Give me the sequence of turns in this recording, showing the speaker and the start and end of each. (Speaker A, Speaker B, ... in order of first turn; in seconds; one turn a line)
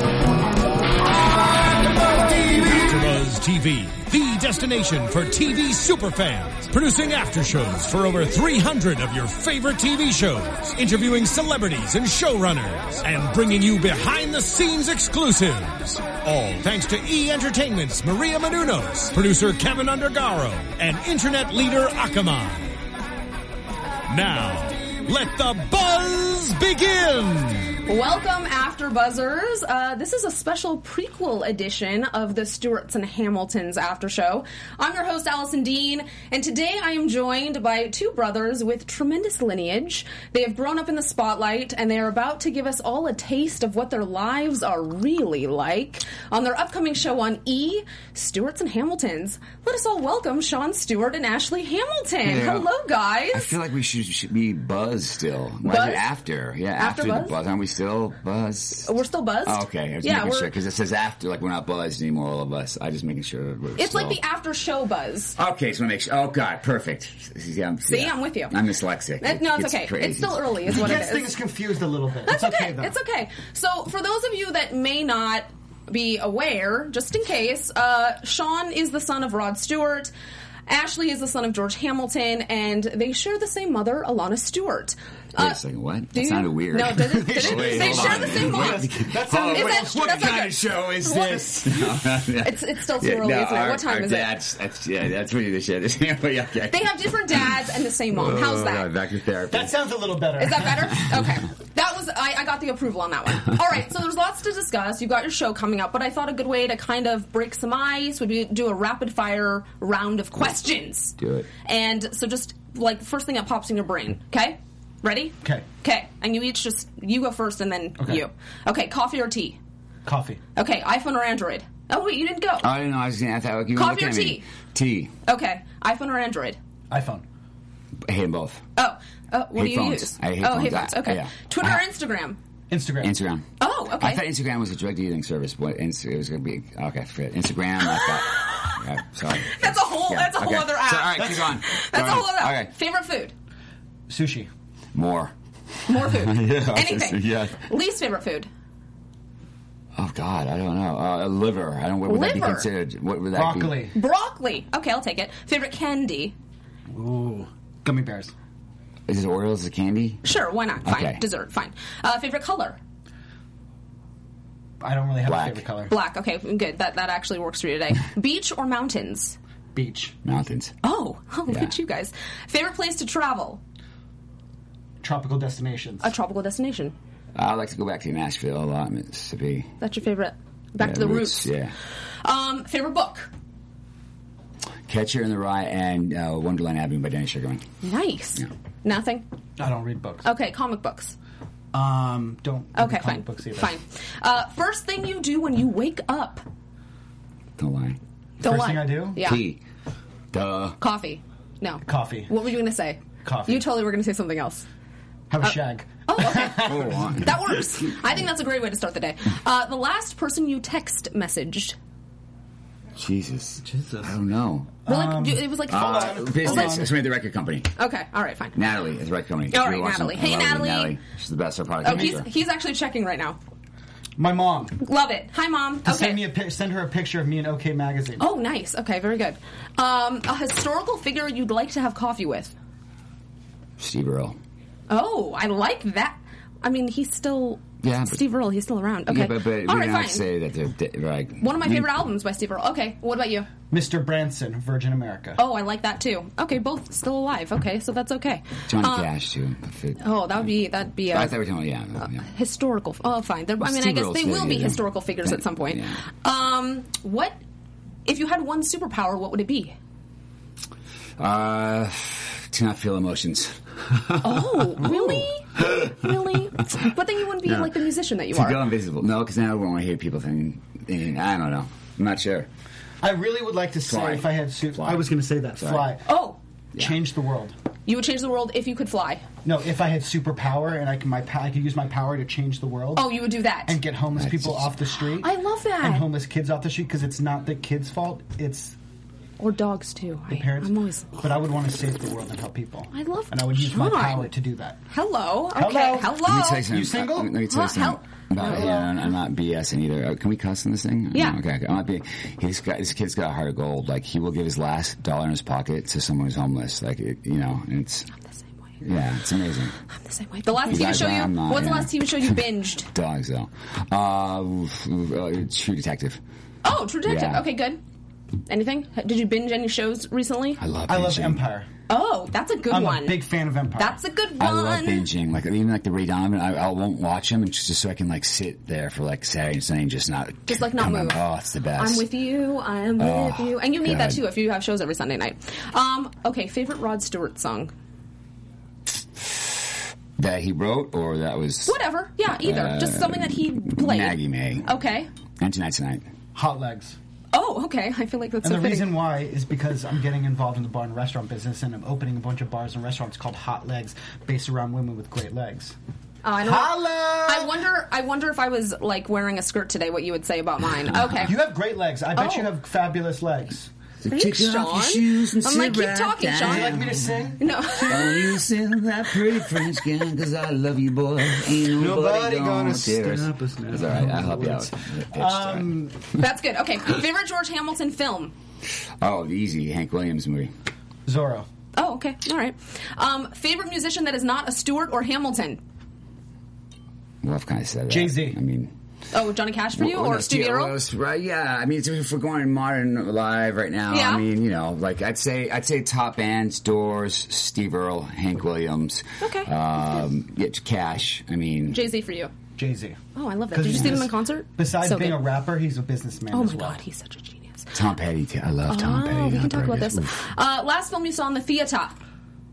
Speaker A: 1.3-22.8
Speaker A: 24.1-27.8
Speaker B: 27.9-53.5
Speaker C: 52.2-52.7
Speaker C: 53.3-58.9
Speaker B: 55.6-56.1
Speaker B: 56.8-57.4
Speaker B: 58.9-60.5
Speaker C: 59.5-64.2
Speaker B: 63.8-65.4
Speaker C: 65.4-71.0
Speaker B: 67.9-68.6
Speaker B: 69.2-71.3
Speaker D: 70.7-73.0
Speaker B: 72.3-80.1
Speaker B: 80.7-85.6
Speaker C: 85.4-99.7
Speaker B: 86.1-88.9
Speaker D: 87.0-90.5
Speaker B: 89.5-91.7
Speaker D: 91.1-91.6
Speaker B: 92.3-94.4
Speaker B: 96.7-98.9
Speaker D: 99.5-101.0
Speaker B: 100.4-119.6
Speaker C: 111.2-111.5
Speaker D: 120.1-120.4
Speaker B: 120.6-122.7
Speaker C: 122.6-125.1
Speaker B: 123.8-124.5
Speaker B: 125.2-126.6
Speaker D: 126.9-127.2
Speaker C: 128.0-128.7
Speaker B: 128.8-132.4
Speaker C: 129.6-131.8
Speaker D: 132.7-133.2
Speaker C: 133.0-142.7
Speaker B: 133.6-134.2
Speaker B: 138.4-138.7
Speaker B: 139.5-143.3
Speaker D: 141.2-141.5
Speaker D: 144.1-144.5
Speaker C: 144.9-145.3
Speaker C: 145.9-147.7
Speaker B: 145.9-148.5
Speaker C: 150.0-153.9
Speaker B: 152.1-152.7
Speaker D: 153.3-154.0
Speaker B: 153.9-156.3
Speaker D: 156.9-158.3
Speaker C: 159.1-160.2
Speaker B: 160.2-162.8
Speaker C: 160.8-161.2
Speaker D: 164.8-165.9
Speaker C: 165.2-165.7
Speaker B: 165.9-169.4
Speaker D: 169.7-170.2
Speaker C: 170.2-170.8
Speaker B: 170.8-173.6
Speaker D: 175.0-176.1
Speaker B: 176.0-176.9
Speaker C: 177.3-179.7
Speaker B: 179.8-181.5
Speaker C: 180.8-181.7
Speaker B: 182.2-183.3
Speaker C: 184.9-187.7
Speaker B: 187.8-189.2
Speaker D: 189.6-190.2
Speaker B: 190.2-191.2
Speaker D: 191.7-193.7
Speaker B: 192.8-196.4
Speaker C: 197.6-198.0
Speaker D: 198.4-199.2
Speaker B: 198.4-199.4
Speaker C: 199.2-199.6
Speaker C: 200.3-200.8
Speaker B: 200.8-204.7
Speaker D: 201.8-202.3
Speaker D: 203.2-203.7
Speaker D: 205.3-207.6
Speaker B: 206.1-211.8
Speaker C: 206.6-207.4
Speaker C: 213.0-214.8
Speaker D: 213.6-214.2
Speaker D: 214.9-216.9
Speaker B: 214.9-216.8
Speaker C: 215.7-217.7
Speaker B: 217.8-218.6
Speaker C: 218.5-222.3
Speaker B: 219.5-221.0
Speaker B: 221.8-223.4
Speaker D: 221.9-222.2
Speaker D: 224.2-224.8
Speaker B: 224.8-226.2
Speaker D: 225.8-228.3
Speaker B: 228.2-232.6
Speaker C: 233.8-234.4
Speaker B: 234.9-240.3
Speaker C: 237.8-238.2
Speaker C: 239.1-242.1
Speaker B: 241.4-243.5
Speaker D: 243.7-245.4
Speaker B: 245.4-249.1
Speaker C: 248.7-250.5
Speaker B: 250.0-251.4
Speaker C: 251.1-252.3
Speaker B: 252.0-257.4
Speaker C: 253.6-256.0
Speaker B: 258.1-259.8
Speaker C: 261.2-266.1
Speaker B: 264.2-268.7
Speaker C: 267.4-267.8
Speaker C: 268.3-272.5
Speaker D: 273.0-276.1
Speaker C: 273.9-275.9
Speaker B: 276.1-276.4
Speaker D: 276.8-277.6
Speaker B: 277.9-279.3
Speaker D: 279.4-288.8
Speaker B: 282.9-283.8
Speaker C: 284.1-284.8
Speaker B: 285.2-286.1
Speaker B: 289.4-291.2
Speaker D: 290.3-294.8
Speaker B: 292.9-294.3
Speaker B: 294.9-296.7
Speaker D: 295.5-297.4
Speaker C: 296.2-308.1
Speaker B: 297.4-298.9
Speaker D: 298.4-298.9
Speaker B: 301.1-301.4
Speaker C: 308.8-309.8
Speaker B: 309.9-312.9
Speaker C: 310.6-316.2
Speaker B: 316.6-317.8
Speaker C: 317.1-317.4
Speaker B: 318.5-320.6
Speaker C: 320.6-321.4
Speaker D: 320.9-321.7
Speaker B: 321.9-323.2
Speaker D: 322.7-324.0
Speaker B: 323.8-325.1
Speaker C: 324.4-332.1
Speaker B: 330.5-331.2
Speaker B: 331.8-337.7
Speaker C: 333.0-334.2
Speaker C: 339.2-344.7
Speaker B: 341.7-345.1
Speaker C: 345.4-346.1
Speaker D: 346.3-347.0
Speaker B: 347.3-349.0
Speaker D: 348.4-355.8
Speaker B: 356.2-361.4
Speaker D: 356.4-357.6
Speaker C: 360.9-361.2
Speaker D: 361.2-363.7
Speaker B: 362.1-362.5
Speaker C: 364.0-376.0
Speaker B: 364.1-366.8
Speaker D: 366.4-368.3
Speaker B: 367.4-368.4
Speaker D: 371.7-376.0
Speaker B: 376.1-378.3
Speaker C: 379.0-380.5
Speaker D: 381.1-381.5
Speaker B: 381.8-385.6
Speaker C: 387.2-388.7
Speaker D: 387.9-388.4
Speaker B: 389.1-390.8
Speaker C: 389.8-401.9
Speaker B: 393.9-394.2
Speaker B: 399.2-399.5
Speaker B: 401.7-402.3
Speaker D: 402.6-403.0
Speaker B: 403.1-405.2
Speaker D: 403.5-406.8
Speaker C: 403.7-404.0
Speaker B: 406.3-407.7
Speaker C: 407.7-410.2
Speaker B: 408.7-412.0